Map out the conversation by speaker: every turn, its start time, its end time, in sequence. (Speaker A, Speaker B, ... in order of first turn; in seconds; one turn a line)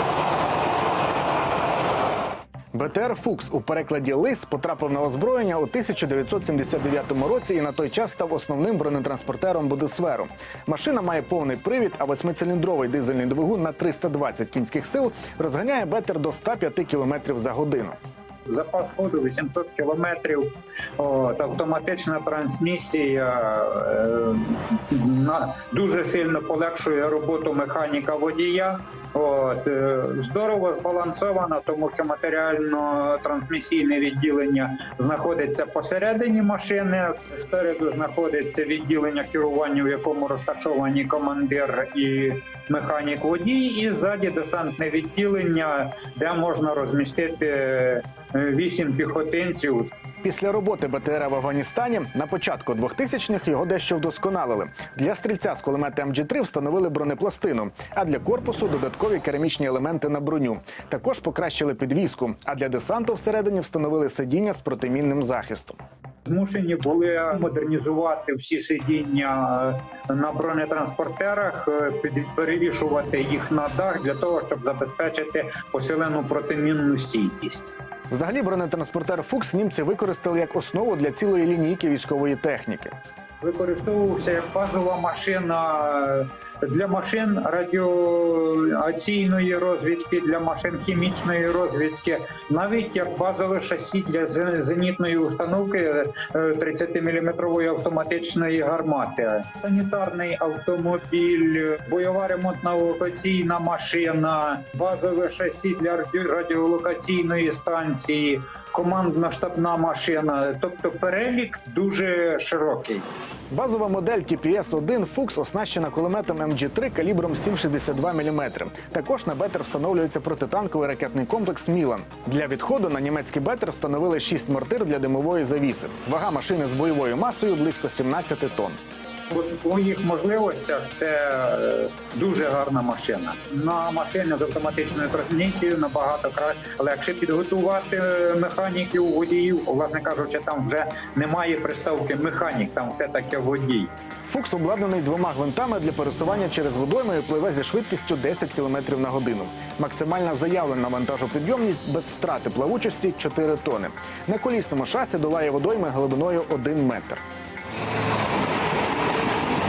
Speaker A: 2.7-18.0
Speaker B: 18.5-49.9
Speaker A: 50.2-65.8
Speaker B: 66.3-77.8
Speaker A: 78.1-82.9
Speaker B: 83.4-113.1
Speaker A: 113.5-128.8
Speaker B: 129.3-143.9
Speaker A: 144.3-157.2